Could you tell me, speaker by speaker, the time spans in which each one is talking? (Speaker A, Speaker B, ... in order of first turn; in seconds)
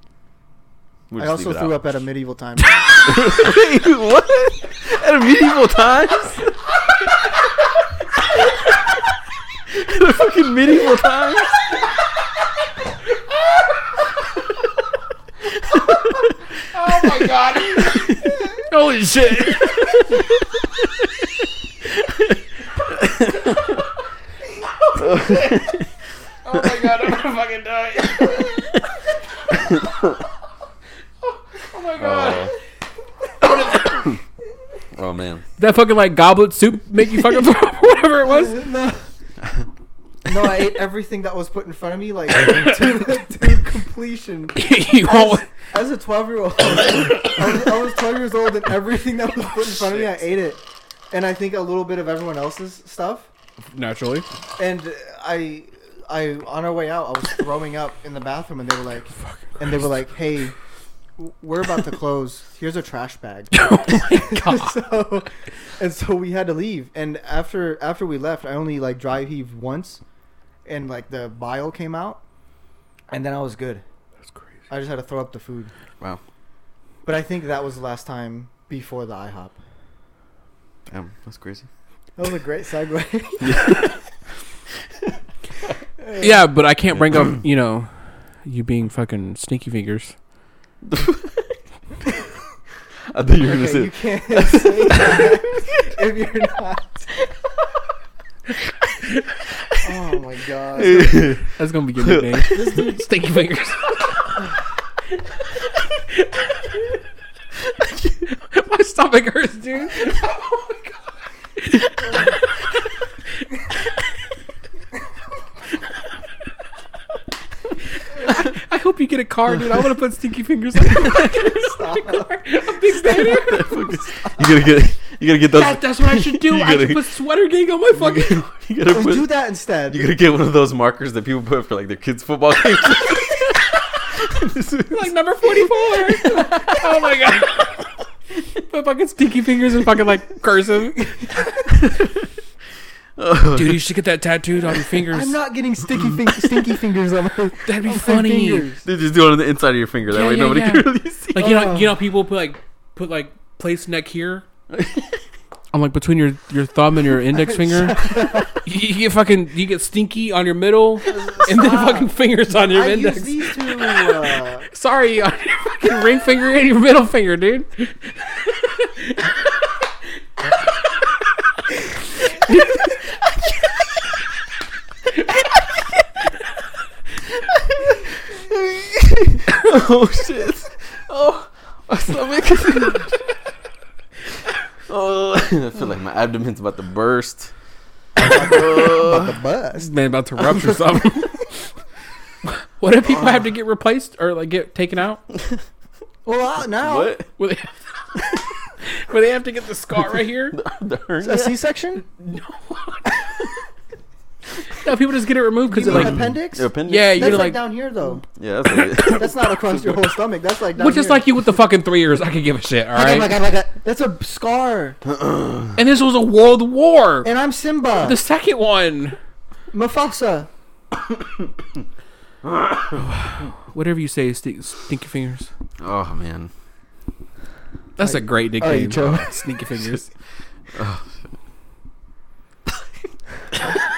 Speaker A: 1.1-1.9, 3.0-6.5, 9.7-11.6, 15.7-16.2, 17.0-18.6, 19.5-20.2, 22.9-23.7, 24.9-25.9, 29.5-30.1, 32.0-32.5, 34.9-35.4, 80.9-81.7, 83.4-84.0, 87.0-87.4, 90.8-91.5, 93.1-95.4, 100.7-102.7, 123.0-127.1, 127.9-129.3, 129.9-137.1, 141.7-142.2, 143.2-143.9, 145.9-146.7, 148.8-151.5, 154.7-155.2, 178.3-183.2, 184.9-187.5, 188.2-189.4, 195.3-195.6, 196.8-197.3, 200.5-201.6, 205.9-207.6, 208.3-210.1, 215.1-215.8, 222.4-223.0, 225.8-226.5, 229.8-230.0, 230.7-231.3
Speaker B: 1.2-2.8, 38.3-39.1, 40.2-53.3, 54.6-60.5, 61.2-70.0, 70.6-72.2, 73.1-73.8, 74.7-75.7, 77.0-79.6, 82.2-83.7, 86.0-86.5, 93.4-97.1, 99.8-101.4, 102.5-103.1, 121.2-124.5, 128.9-130.1, 145.1-148.8, 151.4-152.0, 157.3-158.6, 161.0-164.7, 188.2-191.2, 193.0-193.5, 196.2-197.2, 201.2-202.0, 205.7-208.2, 209.0-211.3, 212.9-215.0, 217.2-218.2, 219.7-220.5, 228.0-229.3
Speaker C: 2.7-3.1, 16.7-20.2, 24.8-25.8, 26.4-28.8, 31.3-32.5, 33.4-34.0, 35.6-38.6, 44.6-45.5, 53.7-54.3, 63.5-64.9, 86.2-90.1, 101.5-104.2, 106.1-106.5, 108.2-111.0, 111.6-112.5, 118.1-123.9, 125.5-128.5, 134.9-137.9, 138.6-141.3, 143.5-145.4, 147.6-148.7, 150.1-154.4, 155.7-164.1, 164.7-169.3, 172.1-173.5, 189.8-191.7, 192.4-195.2, 197.4-197.7, 198.8-200.6, 202.2-203.2, 204.7-206.3, 206.9-207.6, 208.8-209.1, 210.8-213.3, 215.8-217.3, 218.0-219.2, 222.9-225.5, 228.0-230.1